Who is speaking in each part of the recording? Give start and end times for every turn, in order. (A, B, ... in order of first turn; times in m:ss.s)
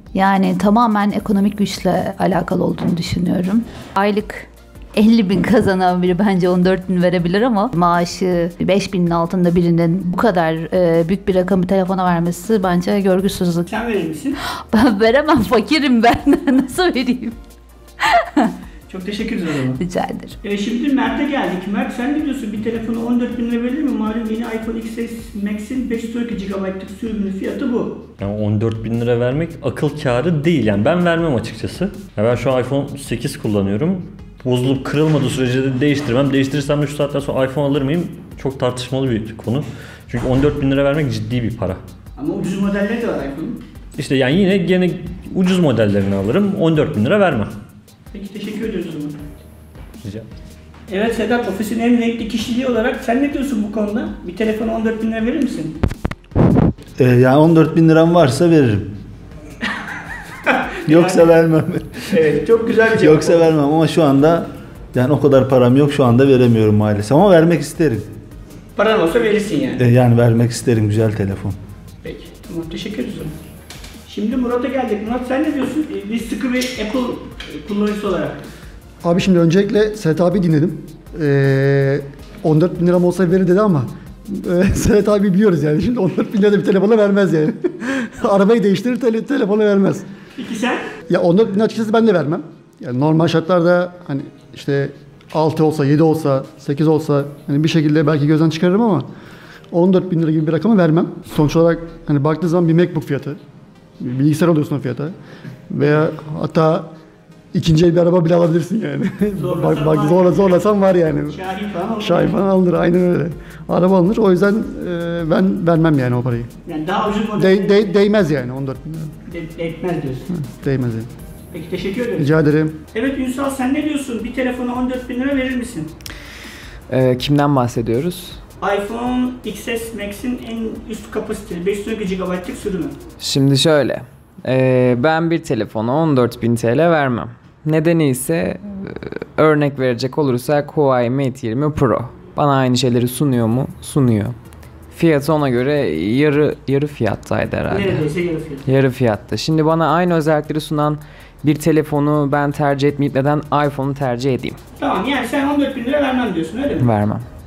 0:00.1-0:13.6 A
0:13.7-0:14.4 B
0:14.7-0:17.4 A
0:18.1-0:18.5 A
0:18.9-0:19.8 B
0:19.8-0:20.3 A
0:20.4-0:28.0 B
0:28.2-0:41.8 C
0:42.2-0:43.6 B
0:44.0-0:47.5 C
0:48.1-0:49.2 B
0:50.9-0:55.8 B
0:57.0-0:58.9 D
1:00.4-1:01.3 B
1:00.8-1:02.1 D
1:02.1-1:03.5 B
1:02.9-1:08.1 D
1:08.7-1:09.8 B
1:09.8-1:11.6 D
1:12.0-1:13.3 B
1:14.1-1:18.4 B
1:19.0-1:30.1 E
1:30.4-1:30.8 B
1:31.1-1:39.1 E
1:39.7-1:43.4 E
1:44.0-1:45.1 E
1:45.7-1:46.9 E
1:47.5-1:51.4 E
1:49.4-1:50.6 B
1:51.2-1:52.4 B
1:52.0-1:56.5 E
1:56.6-1:57.9 B
1:57.4-1:59.1 E
1:59.3-2:00.3 B
2:00.3-2:01.1 E
2:01.5-2:02.3 B
2:02.2-2:02.8 E
2:02.9-2:05.9 B
2:06.9-2:08.4 F
2:08.6-2:13.0 B
2:13.2-2:24.4 F
2:24.9-2:28.1 F
2:27.7-2:28.7 B
2:28.6-2:34.6 F
2:34.8-2:36.9 B
2:36.8-2:37.2 F